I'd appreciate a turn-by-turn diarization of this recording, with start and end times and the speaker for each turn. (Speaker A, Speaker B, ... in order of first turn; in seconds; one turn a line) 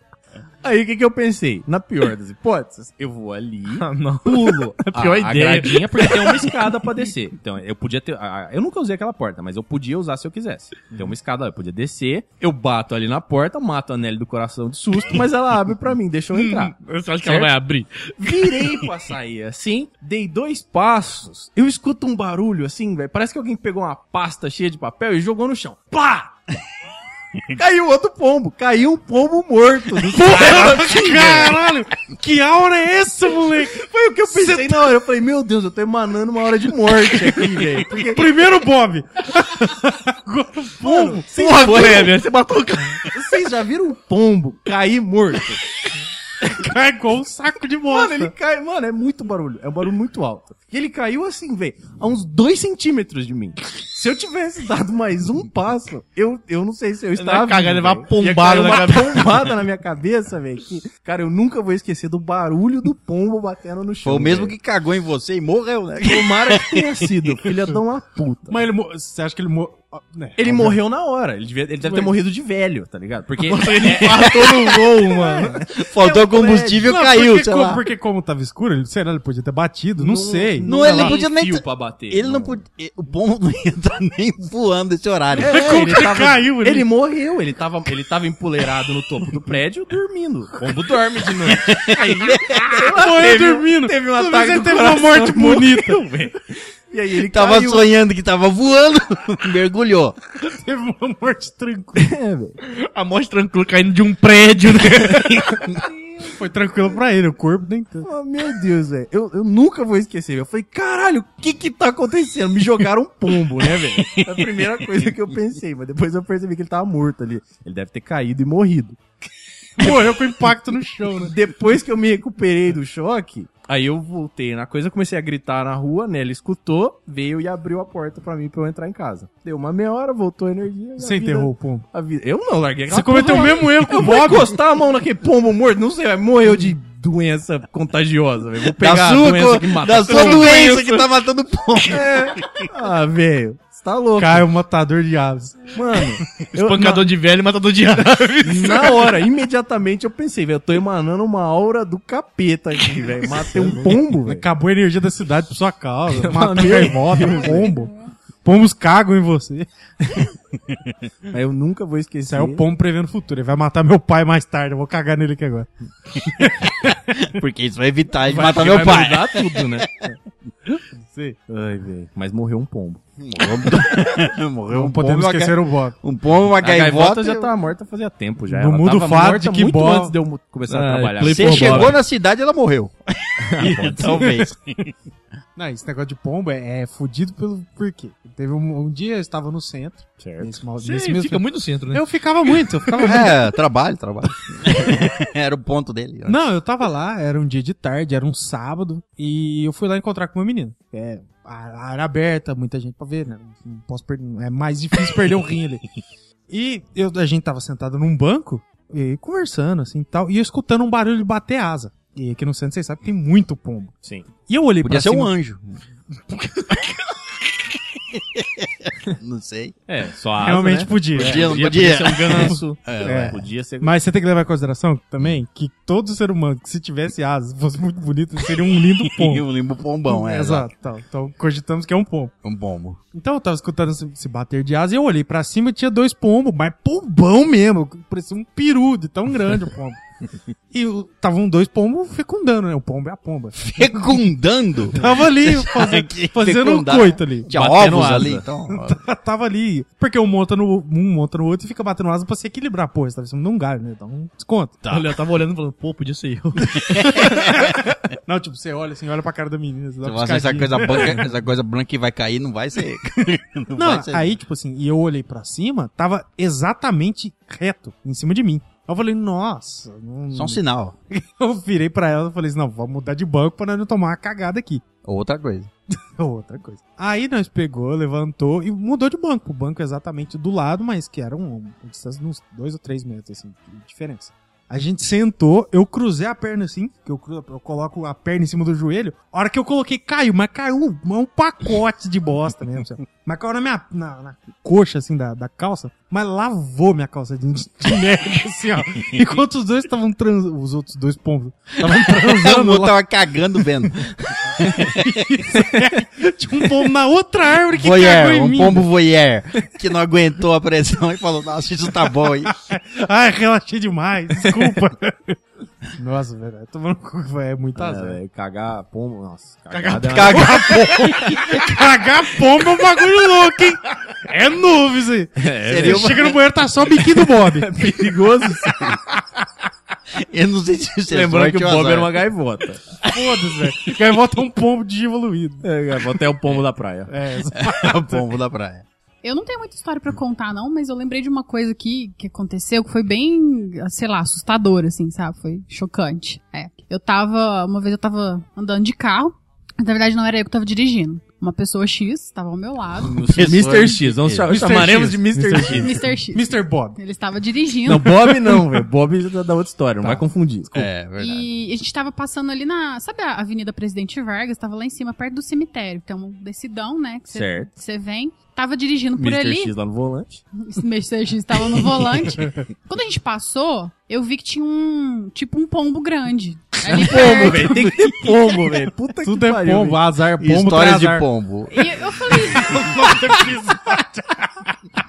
Speaker A: 0.6-17.5
Speaker B: 3.8-6.1
Speaker B: 16.3-18.3
Speaker A: 18.2-26.3
Speaker A: 27.5-31.6
Speaker C: 30.1-34.8
Speaker A: 33.7-38.2
Speaker C: 38.0-42.0
Speaker A: 40.8-42.1
Speaker B: 41.3-43.1
Speaker A: 43.1-45.6
Speaker C: 46.5-48.3
Speaker A: 47.9-64.5
Speaker B: 57.2-59.3
Speaker D: 64.0-66.9
Speaker A: 66.0-68.6
Speaker C: 68.5-70.8
Speaker A: 70.4-76.9
Speaker C: 71.8-72.2
Speaker B: 73.4-75.5
Speaker D: 75.7-77.8
Speaker C: 76.8-81.2
Speaker A: 80.0-82.6
Speaker D: 80.6-85.8
Speaker A: 85.3-97.9
Speaker C: 85.4-86.9
Speaker D: 91.5-92.8
Speaker C: 92.9-96.0
Speaker D: 97.2-100.2
Speaker C: 100.4-102.1
Speaker A: 101.9-102.6
Speaker B: 102.7-105.8
Speaker C: 106.2-108.1
Speaker A: 108.0-119.0
Speaker C: 119.8-121.3
Speaker A: 121.2-140.8
Speaker C: 131.0-131.8
Speaker C: 132.9-134.6
Speaker D: 138.8-142.6
Speaker B: 140.1-141.0
Speaker A: 141.9-144.5
Speaker C: 144.2-145.7
Speaker A: 145.7-147.1
Speaker B: 146.6-149.0
Speaker A: 148.4-154.4
Speaker C: 153.5-159.7
Speaker A: 156.1-157.7
Speaker E: 157.4-158.1
Speaker A: 161.3-162.6
Speaker C: 162.3-167.0
Speaker D: 167.2-170.1
Speaker A: 168.2-170.1
Speaker C: 171.0-171.3
Speaker A: 171.5-173.0
Speaker D: 173.2-177.5
Speaker C: 174.7-175.9
Speaker A: 176.6-182.0
Speaker C: 178.5-180.1
Speaker B: 180.7-182.0
Speaker D: 181.2-184.9
Speaker A: 183.4-184.2
Speaker C: 183.6-184.5
Speaker C: 185.6-193.4
Speaker A: 190.2-190.5
Speaker B: 190.8-192.1
Speaker D: 193.0-196.5
Speaker C: 196.3-205.8
Speaker C: 206.5-213.9
Speaker C: 214.5-215.3
Speaker D: 214.8-215.6
Speaker D: 218.1-219.7
Speaker A: 219.9-223.9
Speaker C: 220.4-229.4
Speaker D: 221.1-223.4
Speaker D: 229.0-230.7
Speaker C: 230.1-232.3
Speaker D: 232.4-233.0
Speaker C: 233.1-240.0
Speaker C: 240.7-243.7
Speaker D: 243.6-249.0
Speaker C: 244.9-247.5
Speaker A: 247.5-248.4
Speaker C: 248.7-254.8
Speaker D: 254.8-255.1
Speaker B: 254.9-257.5
Speaker D: 256.8-257.5
Speaker C: 258.2-261.3
Speaker D: 260.0-264.3
Speaker C: 263.8-270.6
Speaker D: 270.3-270.9
Speaker C: 271.1-274.8
Speaker D: 275.0-275.7
Speaker C: 276.2-303.0
Speaker D: 301.9-305.1
Speaker C: 304.7-308.9
Speaker D: 307.7-312.5
Speaker C: 312.4-315.4
Speaker C: 315.9-318.2
Speaker A: 317.8-320.5
Speaker B: 319.8-320.5
Speaker D: 319.9-321.4
Speaker C: 320.2-327.7
Speaker A: 325.4-326.4
Speaker D: 325.7-326.4
Speaker A: 327.3-328.9
Speaker D: 330.1-332.1
Speaker A: 331.1-332.8
Speaker C: 333.1-335.6
Speaker A: 335.6-337.1
Speaker C: 337.1-338.3
Speaker D: 337.5-338.8
Speaker E: 339.2-353.2
Speaker D: 353.0-354.5
Speaker A: 353.3-355.9
Speaker C: 354.5-357.0
Speaker E: 355.7-358.1
Speaker A: 357.9-360.8
Speaker D: 360.0-361.5
Speaker E: 361.2-369.7
Speaker A: 367.3-367.7
Speaker A: 369.1-370.4
Speaker E: 370.5-377.9
Speaker A: 376.8-380.1
Speaker C: 379.2-381.3
Speaker D: 380.4-381.9
Speaker E: 381.7-383.5
Speaker C: 382.5-384.5